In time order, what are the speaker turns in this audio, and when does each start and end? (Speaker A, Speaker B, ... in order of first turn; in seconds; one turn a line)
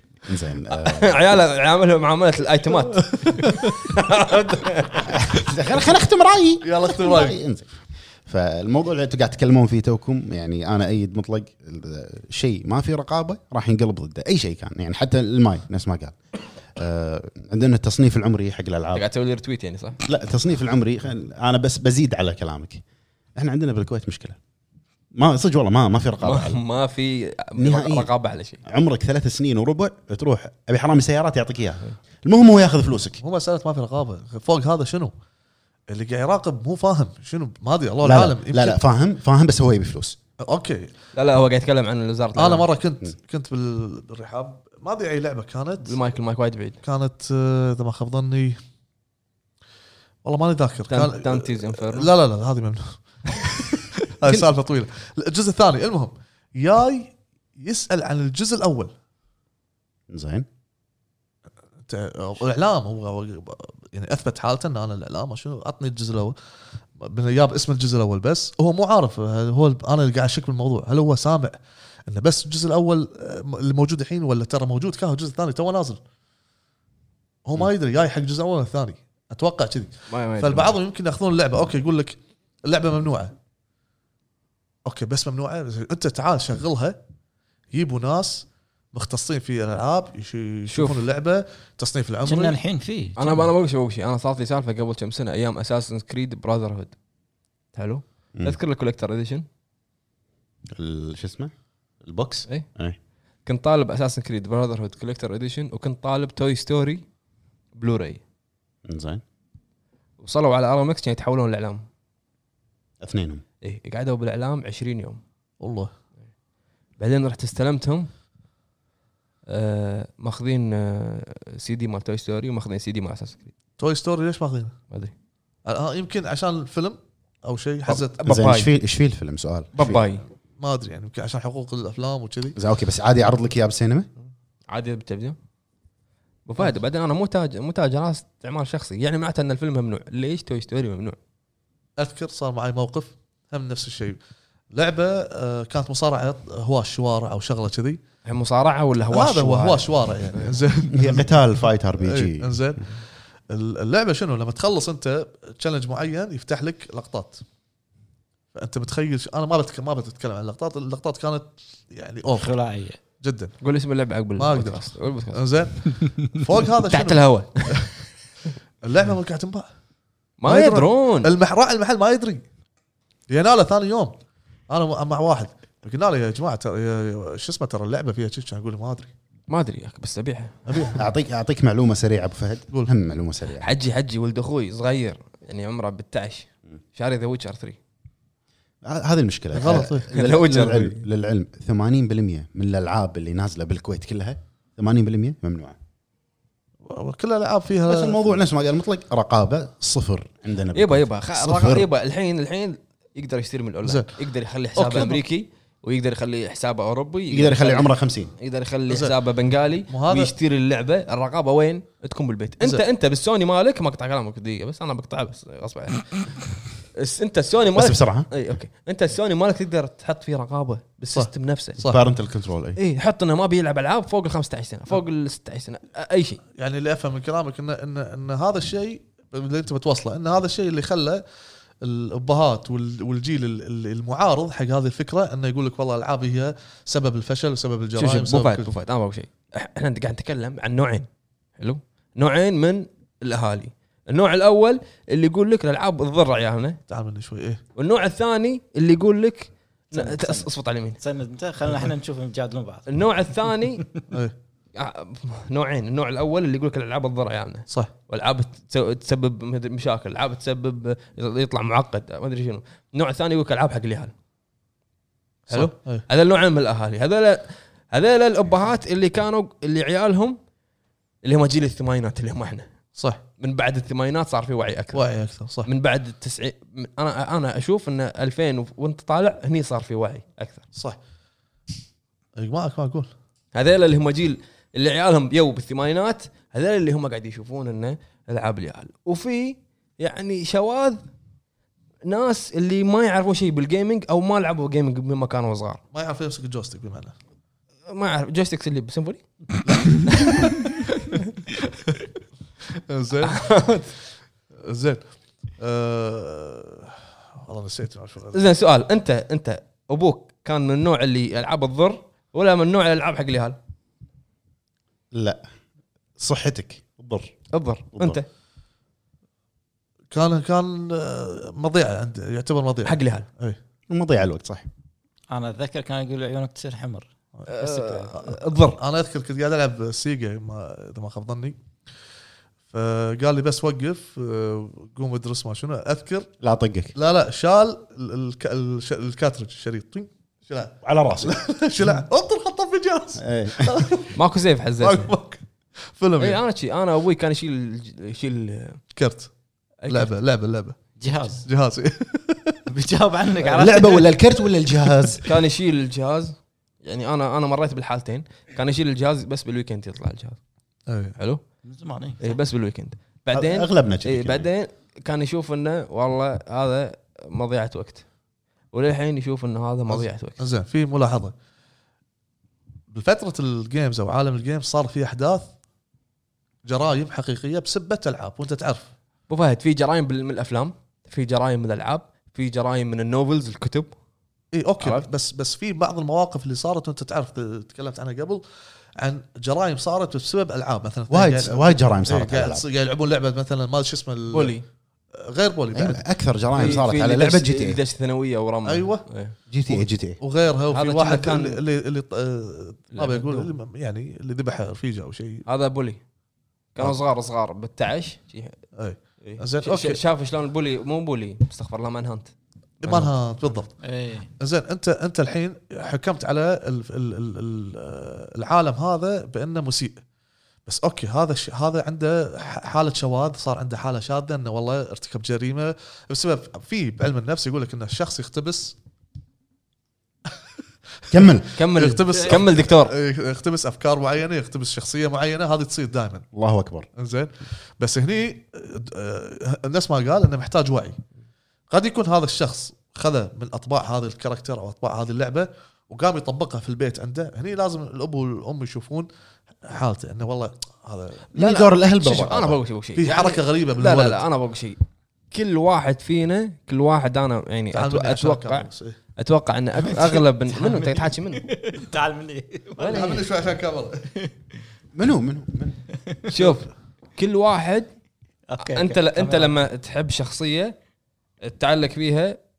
Speaker A: 0.2-1.2
Speaker B: 0.8-5.3
Speaker C: 3.1-3.7
Speaker A: 5.1-7.7
Speaker C: 6.6-7.4
Speaker A: 8.2-16.1
Speaker A: 16.7-19.1
Speaker B: 18.9-20.0
Speaker A: 20.1-22.8
Speaker A: 23.4-24.4
Speaker A: 25.1-26.6
Speaker B: 26.2-28.6
Speaker A: 27.6-28.1
Speaker A: 28.6-33.2
Speaker C: 33.2-35.1
Speaker C: 35.9-38.8
Speaker A: 38.0-40.2
Speaker C: 40.4-40.9
Speaker B: 41.1-42.7
Speaker C: 42.4-46.0
Speaker B: 45.9-46.8
Speaker C: 46.8-48.6
Speaker C: 50.2-58.9
Speaker B: 50.9-52.1
Speaker A: 60.1-60.5
Speaker C: 61.9-66.3
Speaker C: 67.0-71.6
Speaker C: 72.1-76.0
Speaker C: 77.4-83.3
Speaker B: 80.1-80.7
Speaker C: 84.8-87.0
Speaker C: 87.7-92.6
Speaker B: 90.7-91.0
Speaker D: 92.2-93.5
Speaker B: 93.2-96.9
Speaker B: 97.7-99.5
Speaker A: 100.7-103.0
Speaker B: 103.5-107.0
Speaker B: 107.7-108.2
Speaker A: 108.9-109.2
Speaker B: 110.2-111.8
Speaker A: 113.0-113.4
Speaker B: 113.6-115.2
Speaker C: 115.6-115.9
Speaker B: 117.0-118.1
Speaker B: 119.5-123.5
Speaker C: 123.8-124.8
Speaker C: 125.7-128.2
Speaker B: 128.2-128.7
Speaker A: 128.2-130.0
Speaker B: 129.8-130.2
Speaker C: 130.6-132.6
Speaker A: 132.6-134.1
Speaker B: 134.7-135.4
Speaker B: 136.4-141.2
Speaker C: 142.0-144.2
Speaker C: 144.7-148.0
Speaker B: 148.2-150.6
Speaker C: 149.1-151.3
Speaker A: 150.9-152.8
Speaker C: 152.0-157.4
Speaker C: 158.5-162.6
Speaker D: 162.4-163.0
Speaker C: 163.2-163.6
Speaker B: 163.6-165.4
Speaker C: 164.4-167.9
Speaker B: 166.9-167.9
Speaker C: 168.8-169.7
Speaker B: 170.4-171.3
Speaker C: 170.4-172.4
Speaker C: 173.3-174.2
Speaker C: 174.7-179.1
Speaker B: 179.5-180.9
Speaker C: 180.7-181.0
Speaker A: 180.9-183.7
Speaker B: 183.6-187.8
Speaker A: 188.8-195.8
Speaker C: 189.5-190.1
Speaker B: 190.1-191.0
Speaker C: 196.9-198.3
Speaker A: 197.9-201.9
Speaker B: 200.7-221.8
Speaker C: 203.8-204.1
Speaker C: 204.8-205.2
Speaker A: 207.3-208.3
Speaker C: 208.9-209.1
Speaker C: 209.9-210.3
Speaker A: 217.8-218.3
Speaker C: 221.1-222.0
Speaker A: 221.9-222.8
Speaker B: 222.8-226.4
Speaker C: 226.6-231.2
Speaker C: 231.8-238.7
Speaker B: 238.0-241.1
Speaker B: 241.6-246.8
Speaker C: 246.9-247.6
Speaker B: 247.8-251.0
Speaker D: 249.9-252.9
Speaker B: 252.9-253.8
Speaker B: 254.7-264.1
Speaker B: 265.5-270.4
Speaker C: 265.5-266.1
Speaker B: 271.2-272.7
Speaker C: 272.9-273.2
Speaker B: 273.4-275.1
Speaker C: 274.9-275.7
Speaker B: 275.6-280.6
Speaker C: 282.4-283.1
Speaker B: 283.5-291.0
Speaker B: 292.1-295.8
Speaker C: 295.9-297.1
Speaker B: 297.9-299.2
Speaker C: 299.6-300.6
Speaker B: 300.1-301.4
Speaker C: 302.9-303.5
Speaker B: 303.2-303.9
Speaker C: 304.6-305.0
Speaker C: 305.6-308.4
Speaker B: 308.3-313.6
Speaker A: 315.1-315.4
Speaker A: 316.2-317.4
Speaker B: 317.5-318.2
Speaker A: 317.9-318.2
Speaker C: 320.1-323.6
Speaker B: 322.9-323.3
Speaker A: 323.9-324.7
Speaker D: 325.3-328.1
Speaker B: 327.5-328.8
Speaker C: 328.2-331.6
Speaker C: 332.7-336.3
Speaker A: 336.4-336.9
Speaker C: 336.9-344.2
Speaker A: 340.8-341.4
Speaker A: 343.2-343.8
Speaker B: 344.1-345.1
Speaker C: 344.8-346.4
Speaker B: 346.2-348.8
Speaker C: 348.9-349.3
Speaker B: 349.8-350.1
Speaker C: 349.9-350.9
Speaker D: 351.0-351.4
Speaker C: 351.4-352.6
Speaker D: 352.7-354.1
Speaker A: 353.5-355.2
Speaker B: 355.2-360.4
Speaker C: 360.9-361.2
Speaker B: 361.2-361.4
Speaker D: 361.6-362.3
Speaker B: 362.2-368.1
Speaker A: 363.3-364.5
Speaker B: 368.7-370.4
Speaker C: 369.9-371.3
Speaker C: 372.9-375.4
Speaker C: 376.6-378.9
Speaker B: 379.3-383.9
Speaker C: 384.5-388.4
Speaker B: 384.8-385.1
Speaker C: 389.0-394.6
Speaker A: 391.1-392.6
Speaker B: 394.3-394.6
Speaker C: 395.1-396.0
Speaker A: 395.7-397.8
Speaker B: 396.5-399.3
Speaker C: 398.6-399.1
Speaker A: 399.5-400.2
Speaker C: 399.6-405.4
Speaker B: 400.7-401.6
Speaker B: 402.9-403.5
Speaker B: 405.4-406.0
Speaker B: 406.7-408.6
Speaker C: 408.8-410.0
Speaker B: 409.2-413.1
Speaker C: 412.8-413.8
Speaker D: 413.8-414.3
Speaker C: 414.4-420.0
Speaker C: 420.6-428.7
Speaker C: 431.1-436.3
Speaker A: 431.1-431.5
Speaker B: 431.6-432.9
Speaker A: 436.3-436.9
Speaker C: 436.9-441.0
Speaker C: 441.7-449.1
Speaker C: 449.6-451.6
Speaker A: 451.3-452.6
Speaker B: 451.4-454.8
Speaker C: 452.9-454.2
Speaker B: 455.3-458.6
Speaker C: 457.7-459.0
Speaker B: 459.2-461.5
Speaker D: 459.9-463.3
Speaker B: 462.8-463.2
Speaker C: 462.8-464.1
Speaker A: 464.9-465.8
Speaker B: 466.3-467.9
Speaker D: 468.5-469.6
Speaker B: 468.6-470.7
Speaker B: 471.4-472.4